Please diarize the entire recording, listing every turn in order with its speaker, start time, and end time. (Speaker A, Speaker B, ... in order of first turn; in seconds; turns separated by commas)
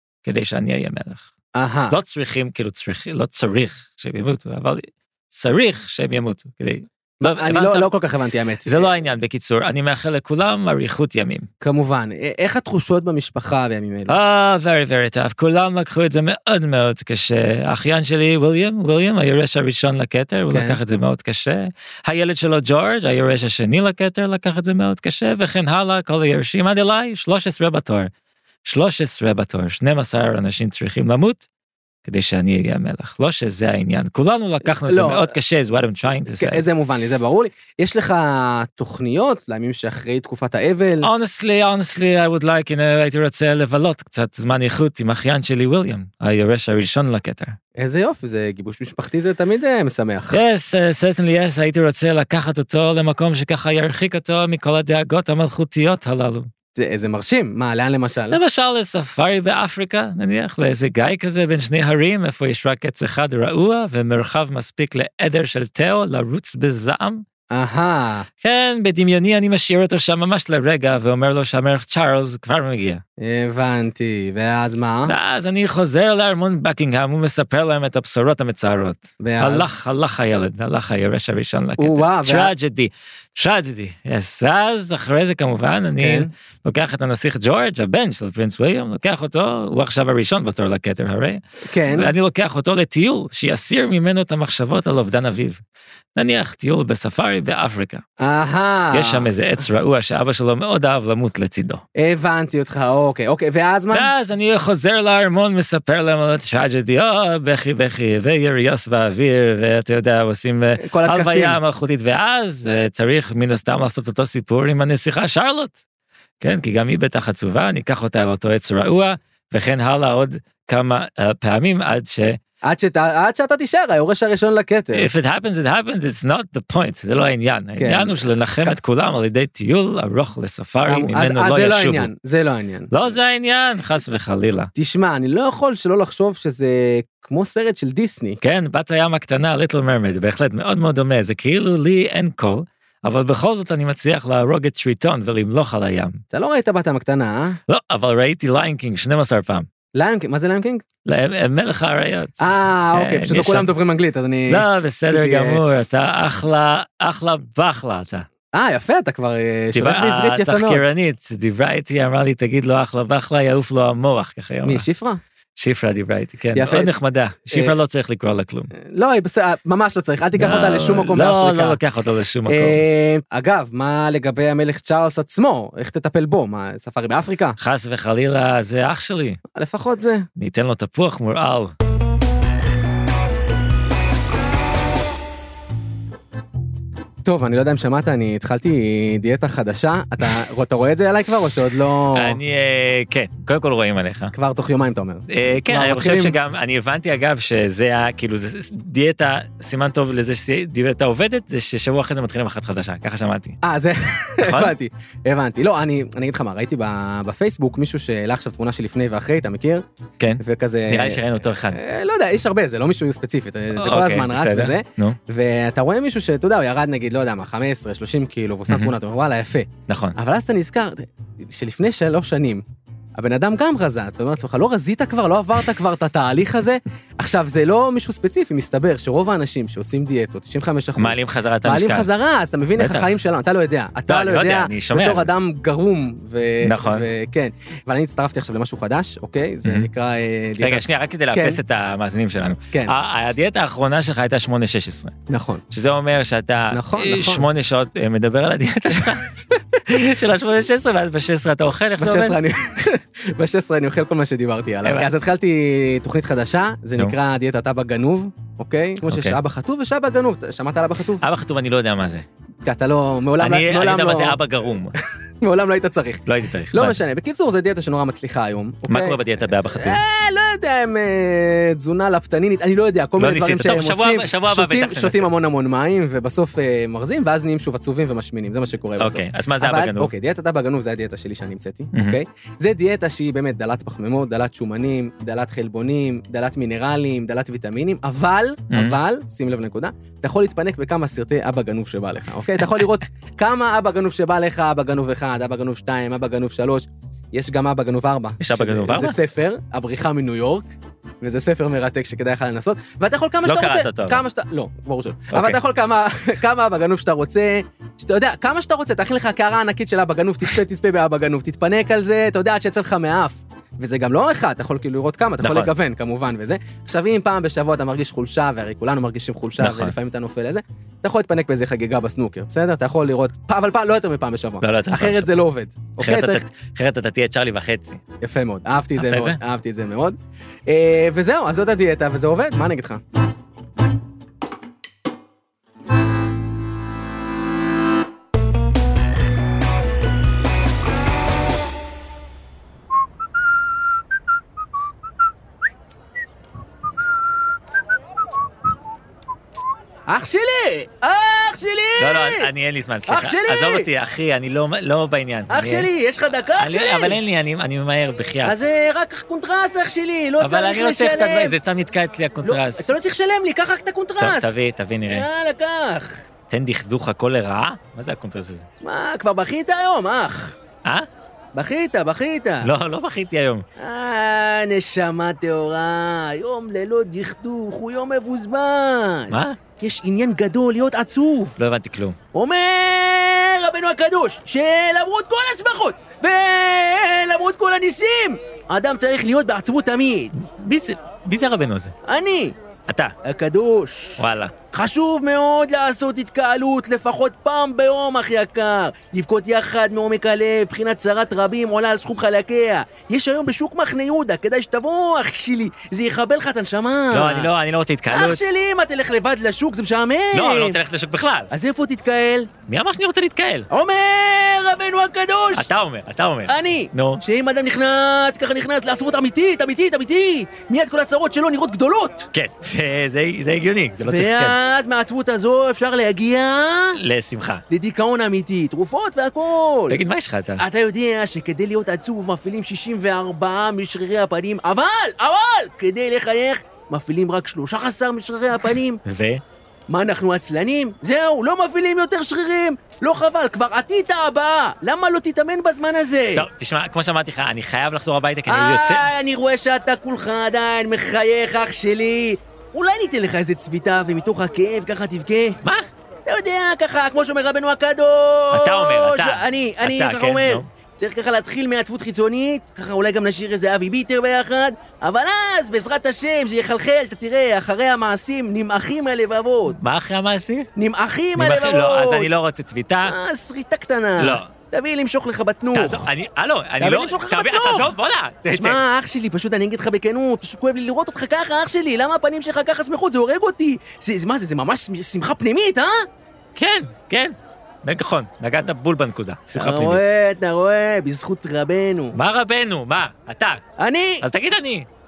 Speaker A: 0.2-1.2, Speaker B: 1.5-2.0, Speaker A: 1.9-7.9, Speaker B: 7.2-8.9, Speaker A: 8.6-11.5, Speaker B: 11.6-14.2, Speaker A: 14.1-28.1, Speaker B: 20.5-20.8, Speaker A: 28.6-31.4, Speaker A: 32.0-36.6, Speaker B: 34.8-35.3, Speaker B: 36.3-41.1, Speaker A: 41.0-47.5, Speaker B: 47.8-50.4, Speaker A: 50.3-56.5, Speaker B: 56.8-58.4, Speaker A: 58.3-67.2, Speaker B: 67.5-68.2, Speaker A: 68.4-73.0, Speaker B: 73.2-75.1, Speaker A: 75.0-95.6, Speaker B: 79.2-79.8, Speaker B: 81.8-82.5, Speaker B: 86.0-86.3, Speaker B: 91.7-92.1, Speaker A: 96.2-98.0, Speaker B: 98.2-99.3, Speaker A: 98.9-101.8, Speaker B: 102.0-104.1, Speaker A: 103.9-115.8, Speaker B: 110.8-111.6, Speaker A: 116.4-122.4, Speaker B: 122.6-125.1, Speaker A: 124.9-132.1, Speaker B: 127.8-128.8, Speaker B: 130.8-132.9, Speaker A: 132.9-134.7, Speaker B: 134.7-138.4, Speaker A: 138.4-146.2, Speaker B: 146.3-147.6, Speaker A: 147.7-149.7, Speaker B: 149.9-150.8, Speaker A: 151.1-153.7, Speaker B: 152.4-155.6, Speaker A: 154.5-158.2, Speaker B: 158.5-160.9, Speaker A: 159.7-164.8, Speaker B: 164.6-165.2, Speaker A: 165.6-168.7, Speaker B: 166.5-166.9, Speaker B: 168.7-171.8, Speaker A: 170.3-172.8, Speaker B: 172.5-177.6, Speaker A: 177.6-179.4, Speaker B: 179.5-180.2, Speaker A: 180.4-181.7, Speaker B: 187.2-192.4, Speaker A: 192.1-194.3, Speaker B: 194.3-196.3, Speaker A: 195.3-203.6, Speaker B: 203.6-209.8, Speaker A: 204.4-204.7, Speaker A: 210.2-211.8, Speaker B: 210.4-222.6, Speaker A: 213.7-215.2, Speaker A: 219.9-220.2, Speaker B: 223.2-241.6, Speaker A: 231.0-232.1, Speaker A: 232.8-233.1, Speaker A: 234.1-235.3, Speaker A: 236.6-237.1, Speaker A: 240.6-245.1, Speaker B: 245.3-245.6, Speaker A: 245.7-249.2, Speaker B: 246.7-247.5, Speaker A: 249.8-252.4, Speaker B: 252.0-261.2, Speaker A: 259.0-259.4, Speaker A: 261.2-262.2, Speaker B: 262.6-264.4, Speaker A: 263.4-265.0, Speaker B: 265.0-269.2, Speaker A: 266.2-267.0, Speaker A: 268.9-270.0, Speaker B: 269.7-300.7, Speaker A: 273.2-275.3, Speaker A: 279.0-280.1, Speaker A: 281.9-282.2, Speaker A: 288.7-289.0, Speaker A: 298.4-299.2, Speaker B: 301.2-326.4, Speaker A: 303.4-304.2, Speaker A: 305.3-305.6, Speaker A: 315.4-315.7, Speaker A: 319.6-319.9, Speaker A: 324.6-325.4, Speaker A: 326.0-328.0, Speaker B: 328.2-333.0, Speaker A: 329.0-329.4, Speaker B: 350.1-352.5, Speaker A: 352.0-355.9, Speaker B: 353.1-353.9, Speaker B: 355.5-357.2, Speaker A: 356.6-358.6, Speaker B: 358.4-361.6, Speaker A: 360.4-362.9, Speaker B: 362.4-366.2, Speaker A: 364.2-365.3, Speaker A: 366.5-368.7, Speaker B: 368.8-370.6, Speaker B: 371.5-372.7, Speaker A: 372.6-373.6, Speaker B: 373.8-381.6, Speaker A: 379.3-379.6, Speaker A: 381.6-382.2, Speaker B: 382.3-390.3, Speaker A: 390.4-391.9, Speaker B: 392.0-392.5, Speaker A: 392.9-393.1, Speaker B: 393.2-407.5, Speaker A: 394.2-394.5, Speaker A: 407.1-408.4, Speaker B: 408.1-410.8, Speaker A: 410.3-411.5, Speaker B: 411.5-412.5, Speaker A: 412.7-413.7, Speaker B: 413.7-415.7, Speaker A: 415.5-417.2, Speaker B: 416.5-422.3, Speaker A: 422.3-424.6, Speaker B: 424.0-427.0, Speaker A: 426.9-427.6, Speaker B: 427.7-430.0, Speaker A: 429.9-430.6, Speaker B: 430.6-439.0, Speaker A: 439.0-439.4, Speaker B: 439.9-446.5, Speaker A: 446.3-449.1, Speaker B: 448.5-455.6, Speaker B: 456.2-469.8, Speaker A: 458.5-460.7, Speaker A: 469.7-470.7, Speaker B: 470.8-472.3, Speaker A: 471.4-473.1, Speaker B: 473.0-476.1, Speaker A: 474.2-474.5, Speaker A: 475.7-478.8, Speaker B: 476.8-477.9, Speaker B: 478.5-485.9, Speaker A: 486.6-490.0, Speaker B: 489.6-492.1, Speaker A: 492.1-493.6, Speaker B: 493.8-494.2, Speaker A: 494.2-494.9